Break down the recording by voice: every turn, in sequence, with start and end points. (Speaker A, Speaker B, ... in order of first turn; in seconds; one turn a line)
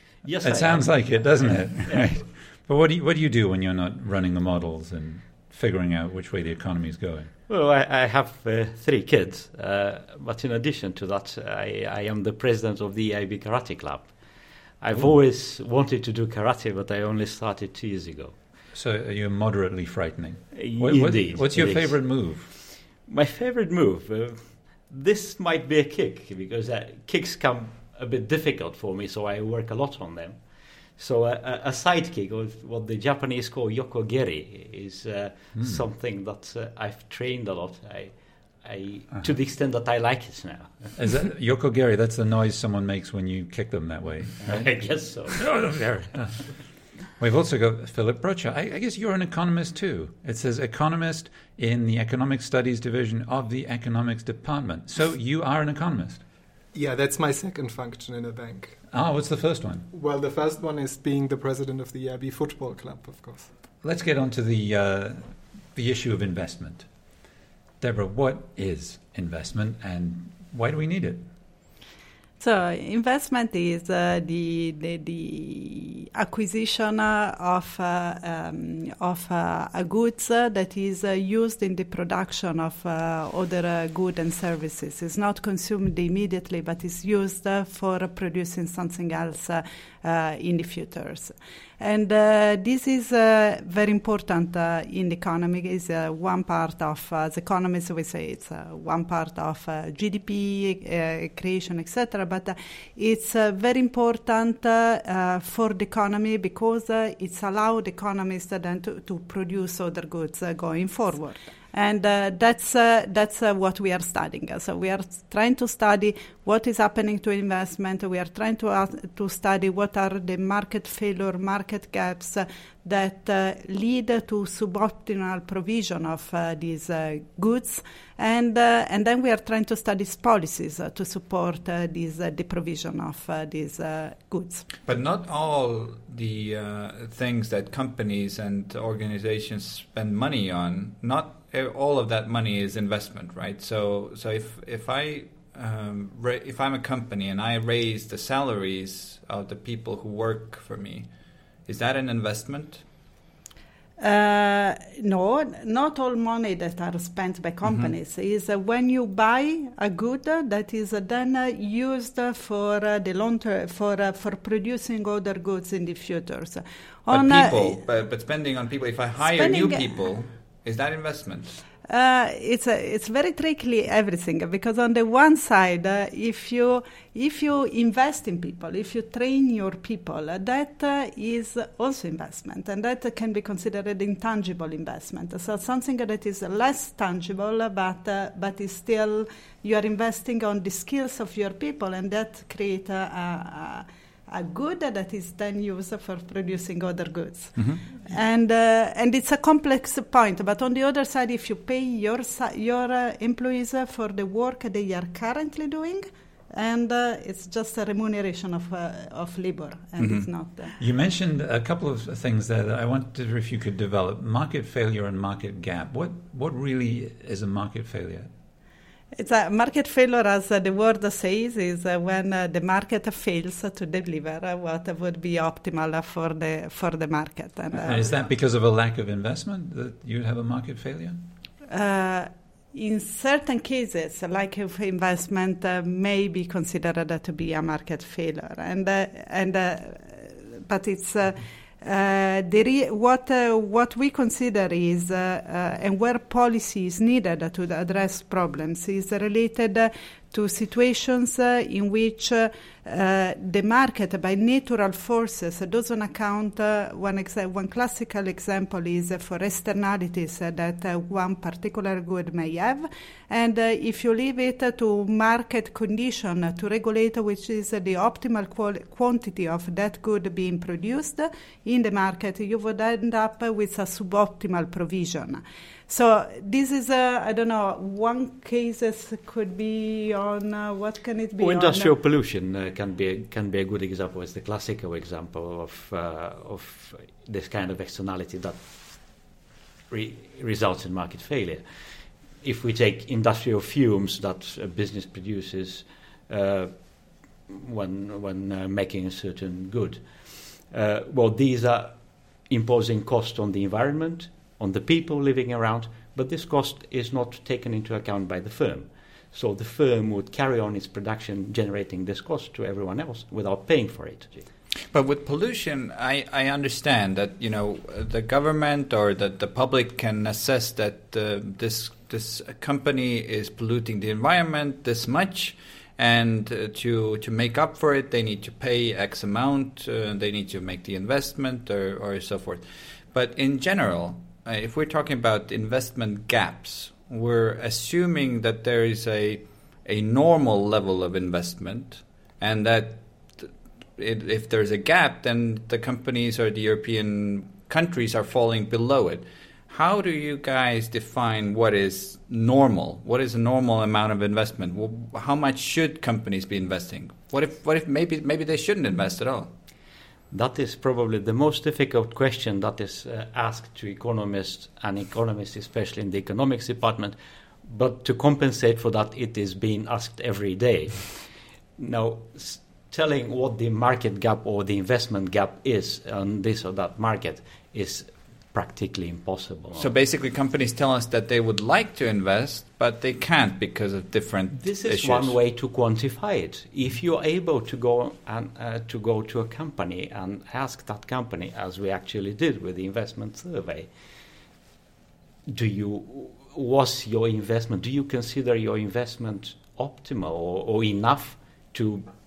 Speaker A: 0.2-2.2
Speaker B: 0.4-7.3
Speaker A: 7.5-18.4
Speaker B: 18.7-22.5
Speaker A: 20.5-40.9
Speaker B: 41.0-46.6
Speaker A: 44.4-46.0
Speaker B: 47.2-56.2
Speaker C: 56.7-58.8
Speaker B: 58.9-59.9
Speaker C: 59.9-63.5
Speaker B: 63.8-66.9
Speaker B: 67.8-71.3
Speaker D: 72.4-134.7
Speaker E: 134.9-151.1
Speaker E: 151.6-152.8
Speaker D: 154.0-167.8
Speaker E: 157.6-157.9
Speaker E: 167.1-171.6
Speaker D: 169.2-169.9
Speaker D: 171.9-210.7
Speaker B: 197.6-197.8
Speaker E: 210.0-210.2
Speaker B: 210.8-218.3
Speaker D: 219.2-228.1
Speaker B: 227.8-231.2
Speaker D: 231.7-281.9
Speaker A: 281.4-289.4
Speaker A: 289.9-314.5
Speaker E: 314.9-359.5
Speaker A: 360.3-379.9
Speaker E: 379.8-385.4
Speaker A: 384.5-393.9
Speaker A: 395.5-402.1